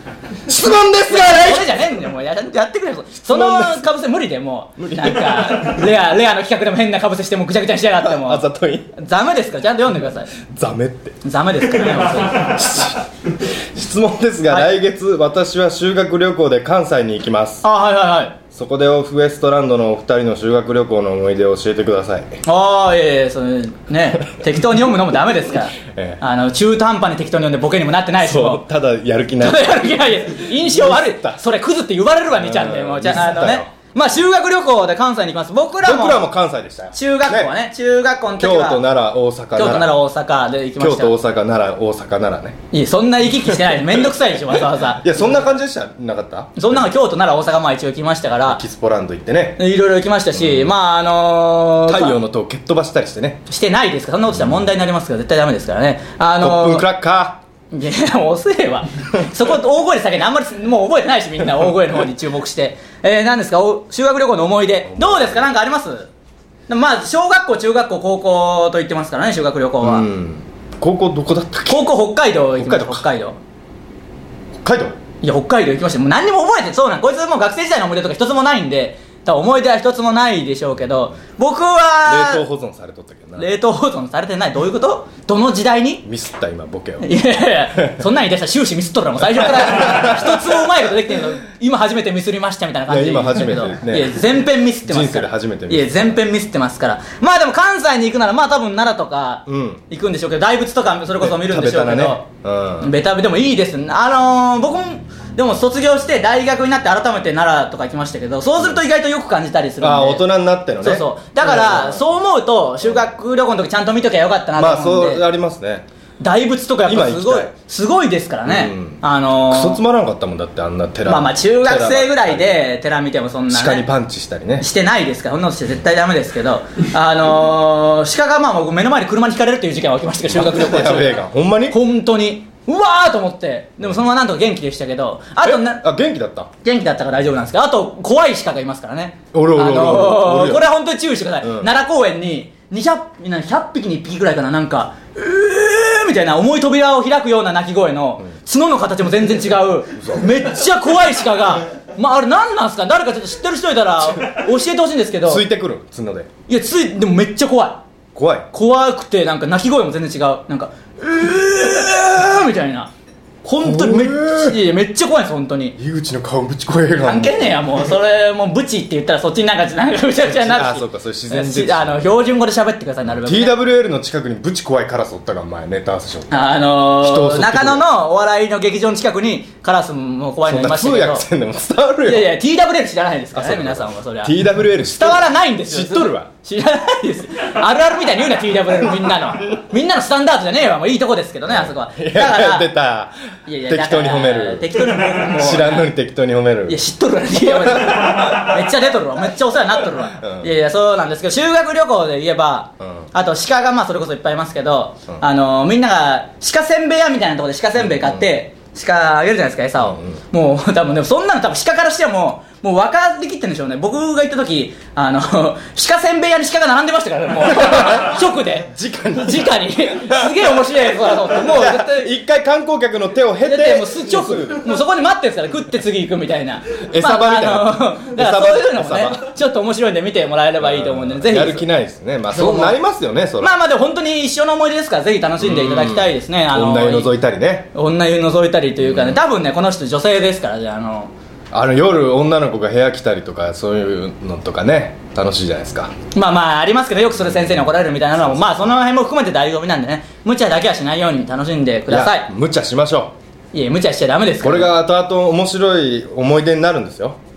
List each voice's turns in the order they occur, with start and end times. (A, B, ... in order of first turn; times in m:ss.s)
0:00.5-0:01.8 A
0:01.0-0:08.4 B
0:03.3-0:03.8 A
0:04.8-0:05.6 A
0:08.0-0:08.9 A
0:09.0-0:10.3 B
0:10.4-0:11.1 A
0:11.2-0:12.8 B
0:12.4-0:17.6 A
0:17.6-0:18.4 B
0:18.5-0:22.3 A
0:22.4-0:28.6 B
0:25.8-0:26.2 A
0:28.2-0:31.4 A
0:29.4-0:36.2 B
0:32.3-0:33.7 A
0:35.8-0:37.5 A
0:36.9-0:38.8 B
0:38.3-0:39.9 A
0:39.6-0:41.1 B
0:40.8-0:42.6 A
0:42.7-0:45.5 B
0:43.5-0:43.8 A
0:44.5-0:46.8 A
0:46.6-0:48.6 B
0:48.5-0:49.6 A
0:49.6-0:52.2 B
0:50.3-0:50.7 A
0:51.8-0:53.4 A
0:53.5-0:56.8 B
0:56.4-0:57.4 A
0:57.7-1:06.1 B
1:04.8-1:05.5 A
1:06.7-1:10.1 B
1:09.8-1:11.9 A
1:11.7-1:13.4 B
1:12.6-1:13.1 A
1:14.6-1:15.0 A
1:15.2-1:22.4 B
1:22.0-1:23.5 A
1:23.4-1:26.0 B
1:26.0-1:27.1 A
1:27.0-1:42.2 B
1:29.6-1:30.4 A
1:32.9-1:34.2 A
1:34.8-1:36.2 A
1:39.5-1:39.8 A
1:41.2-1:42.9 A
1:42.8-1:50.2 B
1:49.8-1:52.0 A
1:50.8-1:55.2 B
1:54.6-1:55.8 A
1:56.2-1:59.8 B
1:56.8-1:57.5 A
1:58.4-2:02.6 A
2:01.0-2:03.8 B
2:03.5-2:04.7 A
2:04.6-2:15.8 B
2:10.3-2:11.8 A
2:15.4-2:16.5 A
2:16.6-2:35.4 B
2:19.3-2:20.6 A
2:21.4-2:21.7 A
2:30.0-2:30.3 A
2:35.2-2:36.3 A
2:36.5-2:37.8 B
2:38.1-2:38.5 A
2:38.5-2:42.9 B
2:43.4-2:45.8 B
2:43.6-2:44.6 A
2:45.8-2:47.9 A
2:47.0-2:53.6 B
2:50.2-2:52.1 A
2:53.2-2:57.8 A
2:56.3-3:01.2 B
3:00.4-3:02.3 A
3:02.0-3:12.7 B
3:03.3-3:06.3 A
3:11.4-3:13.1 A
3:13.5-3:15.9 B
3:13.7-3:16.8 A
3:16.7-3:42.1 B
3:17.4-3:18.5 A
3:20.2-3:20.5 A
3:27.8-3:28.2 A
3:29.8-3:30.2 A
3:37.6-3:40.4 A
3:41.3-3:44.7 A
3:43.4-3:51.6 B
3:46.8-3:49.2 A
3:50.6-3:53.5 A
3:52.3-3:52.8 B
3:53.4-3:57.1 B
3:55.4-3:57.7 A
3:57.7-4:01.1 B
3:58.8-3:59.2 A
4:01.5-4:05.9 A
4:06.1-4:12.3 B
4:07.1-4:08.7 A
4:11.9-4:13.1 A
4:13.5-4:14.7 B
4:14.4-4:17.2 A